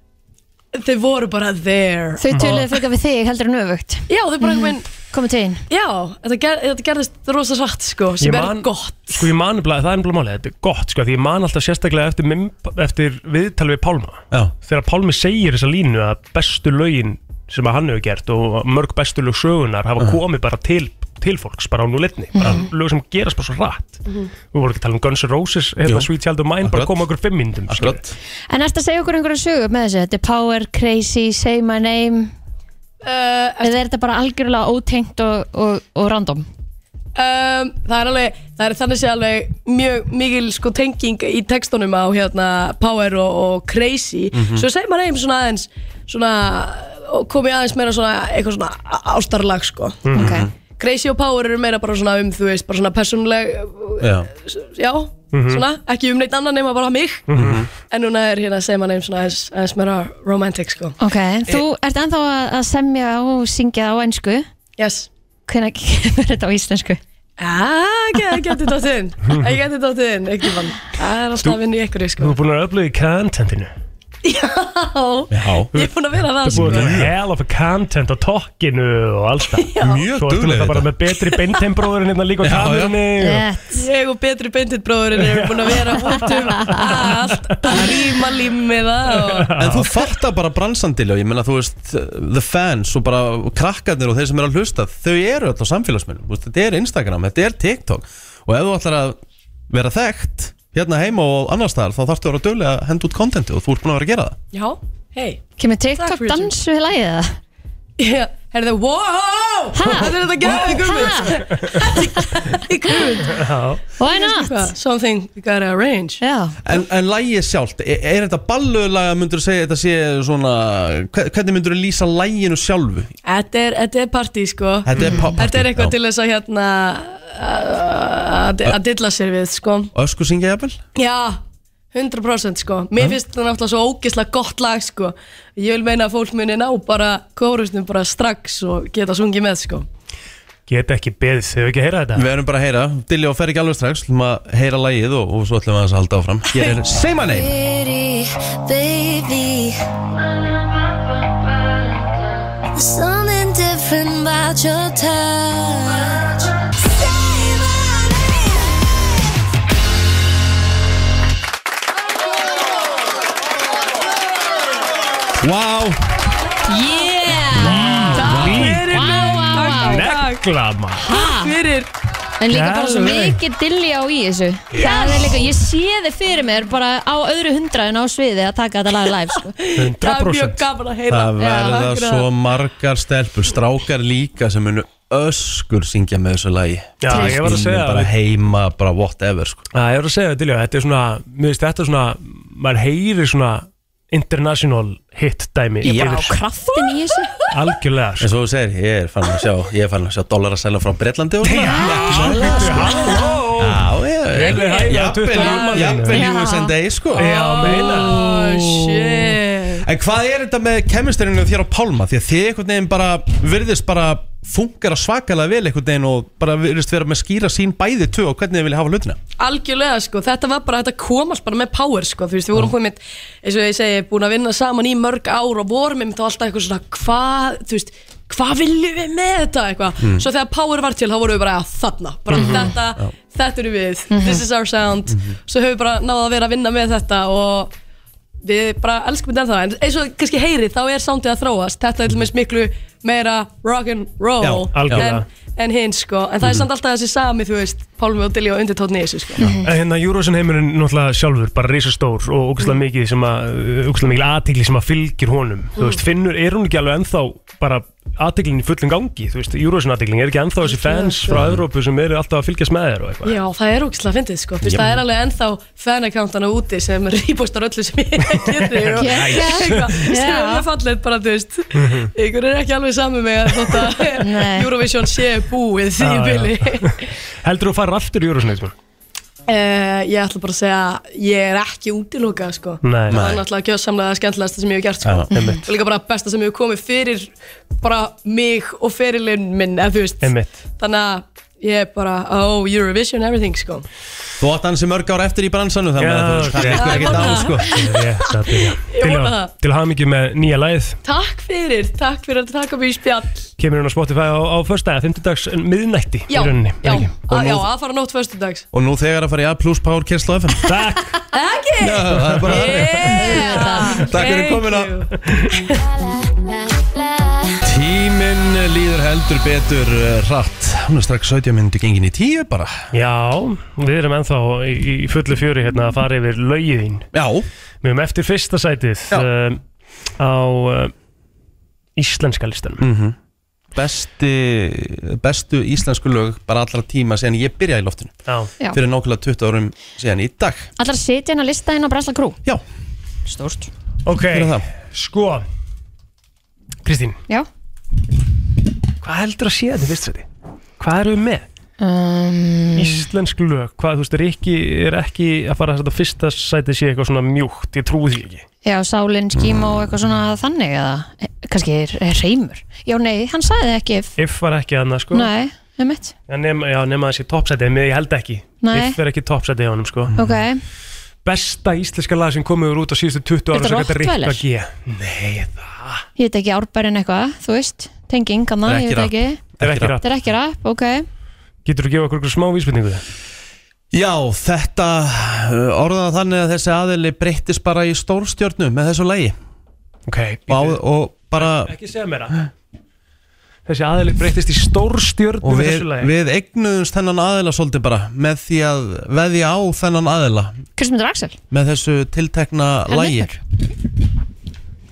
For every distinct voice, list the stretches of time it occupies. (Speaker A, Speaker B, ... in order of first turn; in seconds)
Speaker A: 0.7-2.3, 4.1-4.9, 5.7-9.3, 24.1-24.3, 33.0-33.7, 37.1-50.1, 50.6-57.3, 57.9-61.0, 64.8-65.1, 67.4-72.3, 74.2-77.0, 79.5-80.0, 81.2-81.6, 83.7-89.5, 104.5-105.4, 106.0-106.5, 108.0-113.5, 114.0-116.2, 123.2-129.9, 130.9-139.9, 168.1-170.4, 171.1-171.9, 174.8-175.3, 179.5-182.3, 196.7-197.5, 204.5-206.0, 207.1-209.9, 219.4-237.7, 238.4-249.5, 255.8-256.0, 260.6-261.5, 263.2-277.1, 279.5-293.9, 296.7-299.5, 301.0-303.5, 306.3-308.6, 311.3-315.8
Speaker B: 2.2-5.6, 22.4-22.6, 28.5-32.3, 33.6-36.5, 50.1-50.5, 61.0-64.5, 65.5-67.0, 83.2-83.8, 86.1-86.8, 105.6-107.4, 109.7-112.4, 114.0-114.7, 116.2-116.6, 125.0-125.3, 166.6-170.1, 171.0-171.5, 172.4-179.5, 187.1-187.4, 195.8-197.3, 201.5-203.3, 206.1-206.7, 234.1-234.4, 249.4-249.7, 269.0-270.6, 274.2-274.7, 285.3-285.6, 313.1-314.1, 340.8-342.4, 343.2-343.7, 351.8-353.0, 358.6-364.1, 365.1-366.1, 368.6-369.0, 370.1-370.6, 373.5-374.4, 376.2-379.4, 380.0-381.1, 400.8-401.4, 402.9-403.4
Speaker C: 2.3-2.7, 8.2-28.0, 50.0-50.3, 55.3-55.6, 57.3-57.6, 72.2-73.7, 76.4-83.5, 85.2-87.9, 89.2-89.9, 113.3-113.8, 140.7-142.3, 167.6-171.1, 172.5-173.4, 174.8-175.3, 179.8-180.6, 187.0-188.1, 189.7-196.4, 197.5-198.3, 201.4-206.2, 207.2-208.2, 232.3-232.7, 244.7-245.2, 249.6-263.4, 268.3-269.9, 271.7-272.1, 276.0-278.7, 282.8-283.2, 285.3-285.6, 290.2-290.6, 296.0-301.0, 303.6-307.1, 310.6-311.2, 312.2-312.8, 322.9-327.1, 327.8-329.6, 330.2-330.9, 331.9-332.9, 344.1-345.4, 346.8-347.2, 349.0-350.2, 350.8-351.4, 352.7-358.4, 364.2-365.3, 366.3-370.1, 371.2-376.1, 379.6-380.0, 381.6-383.0, 390.1-390.8, 391.3-392.4, 393.6-396.1
Speaker D: 25.8-26.1, 26.6-27.0, 27.7-28.1, 44.3-44.6, 50.1-50.5, 54.0-54.3, 57.3-57.7, 75.3-75.7, 76.4-77.1, 79.8-80.9, 82.4-83.0, 87.8-88.0, 89.5-99.2, 99.7-104.4, 116.6-123.1, 124.8-125.9, 129.9-130.8, 142.1-147.5, 165.4-166.0, 167.5-168.8, 181.1-189.7, 195.9-196.2, 198.2-219.2, 230.0-230.2, 235.1-235.3, 244.4-245.1, 261.3-261.6, 264.6-265.0, 283.1-283.4, 294.4-298.0, 307.3-307.7, 308.7-310.7, 311.8-314.9, 317.6-322.8, 327.1-327.5, 332.8-333.2, 333.7-338.1, 338.7-340.7, 344.3-344.6, 370.1-370.4, 378.6-380.0, 383.9-389.4, 390.5-391.7, 395.4-400.6, 401.5-403.3
Speaker E: 147.2-149.8, 152.8-156.4, 157.1-157.8, 315.6-317.6